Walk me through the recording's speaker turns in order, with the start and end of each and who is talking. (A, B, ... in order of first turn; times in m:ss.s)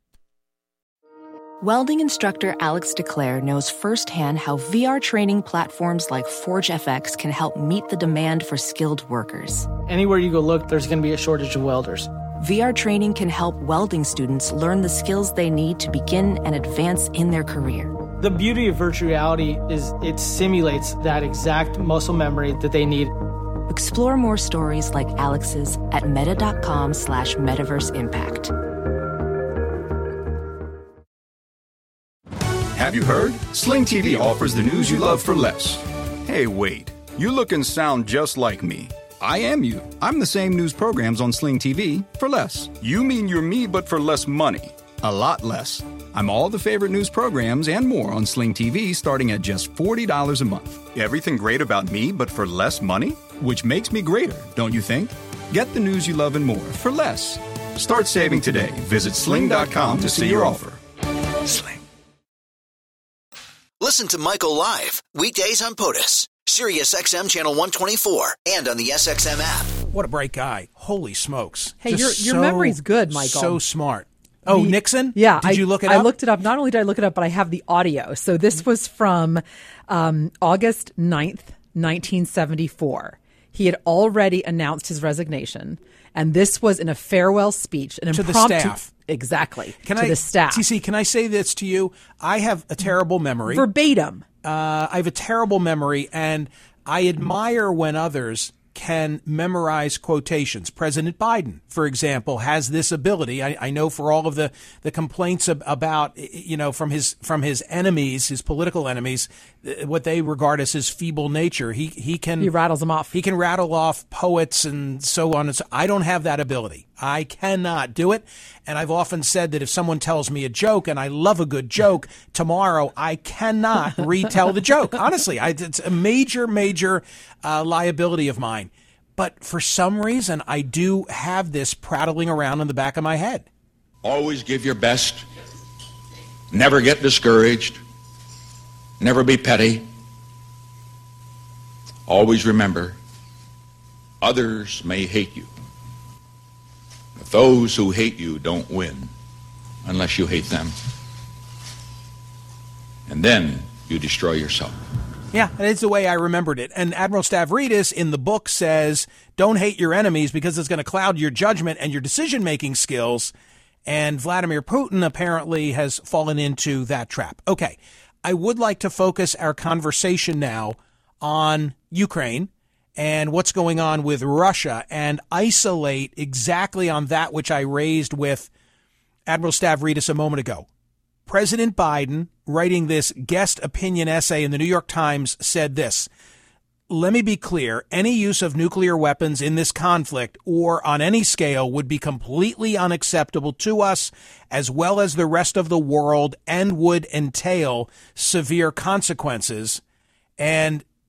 0:01.6-0:09.7 A
0:09.8-0:12.1 B
0:12.4-0:18.0 A
0:18.2-0:23.1 B
0:23.7-0:28.5 A
0:32.7-1:00.8 C
1:03.8-1:09.7 D
1:09.9-1:16.1 E
1:11.8-1:13.6 F
1:14.5-1:30.6 F
1:28.1-1:28.9 E
1:29.8-1:33.7 E
1:33.5-1:34.2 F
1:34.4-1:52.5 E
1:52.4-1:53.1 F
1:53.1-2:13.4 E
2:14.0-2:15.2 G
2:16.5-2:17.8 G
2:19.0-2:19.9 G
2:22.1-2:23.0 G
2:24.2-2:25.5 G
2:27.2-2:29.1 G
2:29.8-2:30.7 G
2:33.1-2:34.7 G
2:35.3-2:43.3 E
2:43.8-2:58.5 E
2:59.3-3:00.7 E
3:01.3-3:06.1 E
3:06.9-3:19.8 E
3:20.4-3:20.8 E